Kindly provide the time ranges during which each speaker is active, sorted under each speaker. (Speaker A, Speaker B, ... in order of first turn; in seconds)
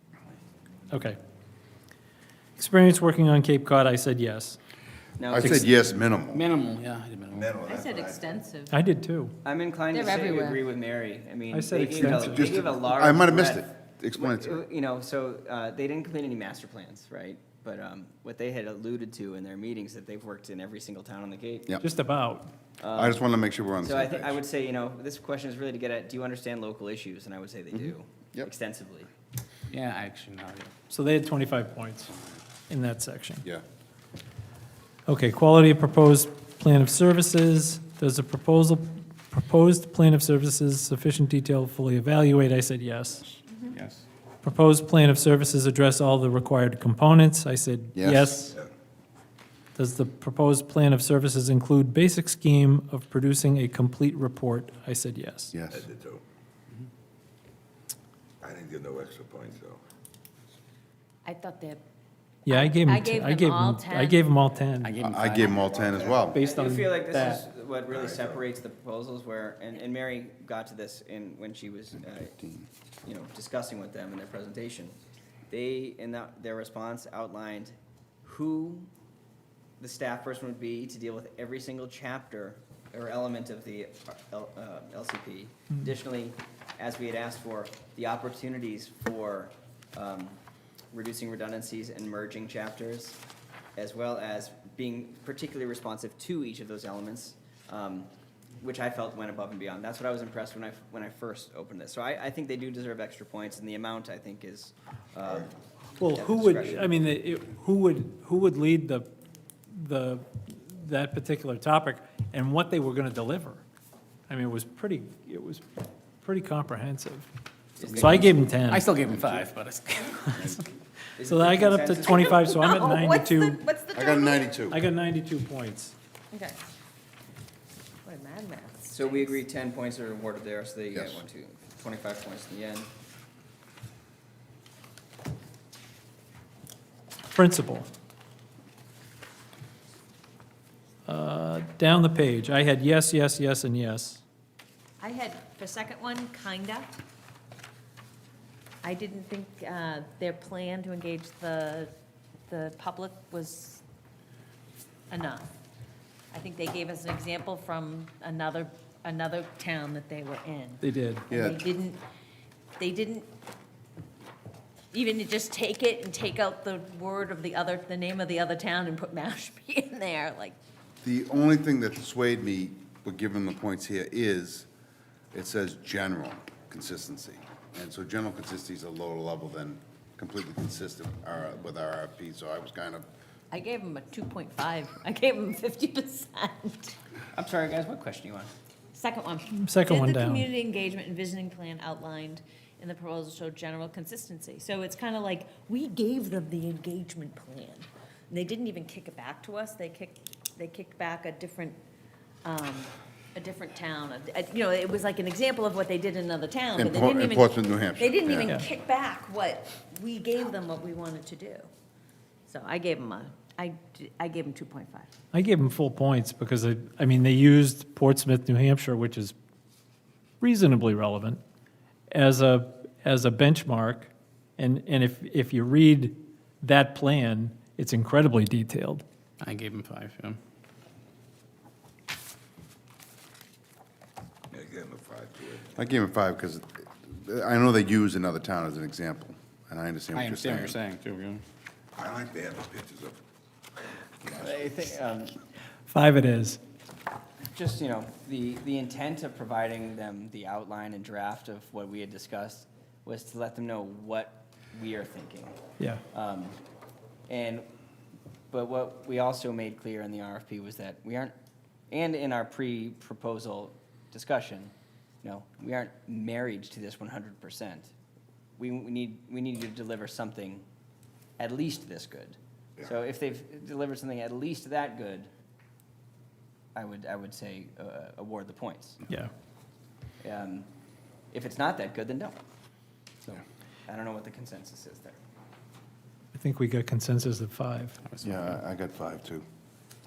Speaker A: 0.9-1.2, 2.6-4.6, 5.4-5.7, 8.7-9.3, 11.5-12.6, 21.8-22.5, 30.9-32.1, 32.7-33.5, 35.1-43.2, 44.4-48.6, 49.8-55.5, 62.5-64.9, 66.3-67.4, 106.0-109.1, 109.7-113.6, 114.3-115.7, 116.2-117.3, 118.0-118.9, 121.2-123.6, 124.7-126.0, 137.3-137.9, 141.1-144.2, 160.8-161.3, 189.5-190.5, 215.3-219.3, 220.4-221.4, 222.1-229.1, 245.9-246.6, 286.3-288.0
Speaker B: 5.2-5.7, 9.4-21.7, 22.8-23.2, 23.8-29.1, 65.8-72.4, 73.0-75.0, 75.5-78.9, 79.8-90.4, 90.9-93.2, 93.8-107.0, 117.8-118.3, 121.2-122.6, 128.9-132.9, 187.3-188.5, 244.4-245.4, 247.5-255.6, 256.1-256.6, 257.3-257.7, 258.5-261.4, 261.9-267.9, 268.6-270.6, 271.4-275.3, 276.8-279.0, 280.2-280.7, 281.3-282.4, 283.2-285.2
Speaker C: 5.3-6.5, 12.0-14.6, 22.9-24.4, 27.7-28.5, 48.0-48.5, 55.5-55.9, 65.0-66.4, 117.8-118.5, 119.0-119.5, 120.3-120.6, 123.9-124.8, 130.9-131.2, 161.3-161.7, 171.0-174.7, 175.3-183.1, 206.7-208.5, 235.7-240.8, 288.2-289.4
Speaker D: 6.3-7.7, 29.7-30.7, 43.7-44.0, 64.8-66.0, 118.6-120.6, 229.4-230.4, 240.1-241.4, 288.1-288.4
Speaker E: 7.4-8.4, 55.7-56.2, 58.4-59.8, 234.5-235.7, 242.0-243.2, 244.3-244.6
Speaker F: 7.6-8.8, 9.9-10.7, 61.2-61.8, 62.5-64.2, 122.1-124.5, 126.3-126.6, 128.1-129.4, 145.0-146.9, 148.8-151.9, 152.5-153.8, 155.1-155.5, 156.3-162.0, 162.8-163.3, 164.9-170.6, 183.5-187.0, 188.9-201.8, 202.4-211.7, 212.5-215.1